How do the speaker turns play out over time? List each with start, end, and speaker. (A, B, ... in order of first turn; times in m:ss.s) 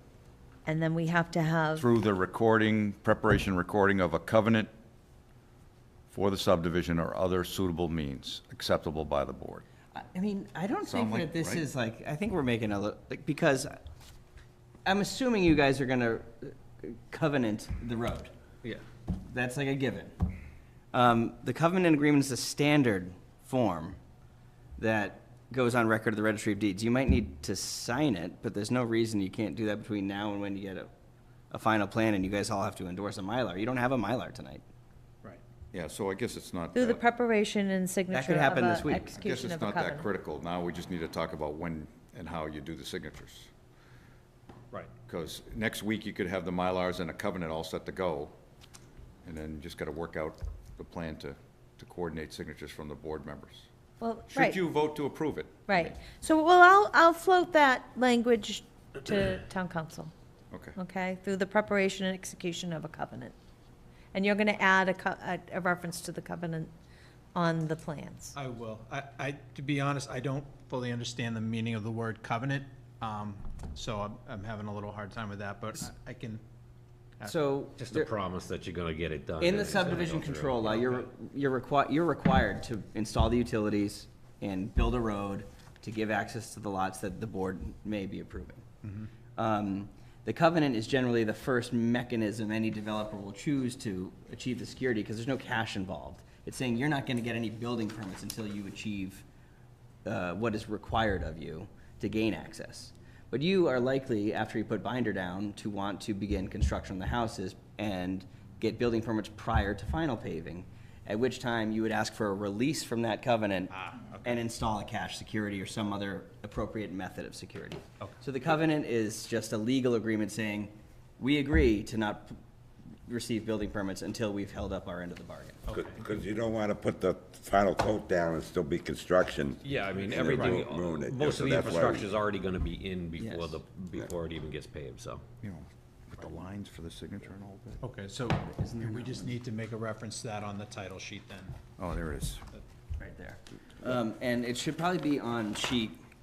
0:00.6-0:01.8 A
0:01.8-0:04.7 B
0:06.1-0:09.6 B
0:09.9-0:13.8 C
0:10.8-0:11.6 B
0:14.8-0:18.3 C
0:19.1-0:20.2 C
0:20.9-0:24.0 C
0:24.8-0:30.9 C
0:31.5-0:34.6 C
0:35.7-0:37.0 B
0:36.7-0:40.1 A
0:38.1-0:39.2 C
0:39.2-0:43.5 B
0:45.1-0:48.3 B
0:49.2-0:53.7 B
0:54.0-0:54.6 A
0:54.3-0:56.0 B
0:55.7-1:00.1 A
1:00.7-1:03.3 A
1:04.1-1:06.7 A
1:07.3-1:08.3 A
1:08.3-1:16.4 D
1:17.2-1:18.1 C
1:17.8-1:20.8 E
1:19.4-1:28.6 C
1:28.8-1:29.1 D
1:29.4-1:39.2 C
1:40.0-2:02.4 C
1:53.7-1:54.4 D
2:03.1-2:05.7 C
2:05.7-2:06.0 D
2:05.7-2:12.1 F
2:09.6-2:15.2 E
2:13.2-2:13.6 C
2:15.4-2:17.8 B
2:17.8-2:21.6 D
2:18.5-2:19.4 C
2:21.8-2:22.4 B
2:23.0-2:26.0 C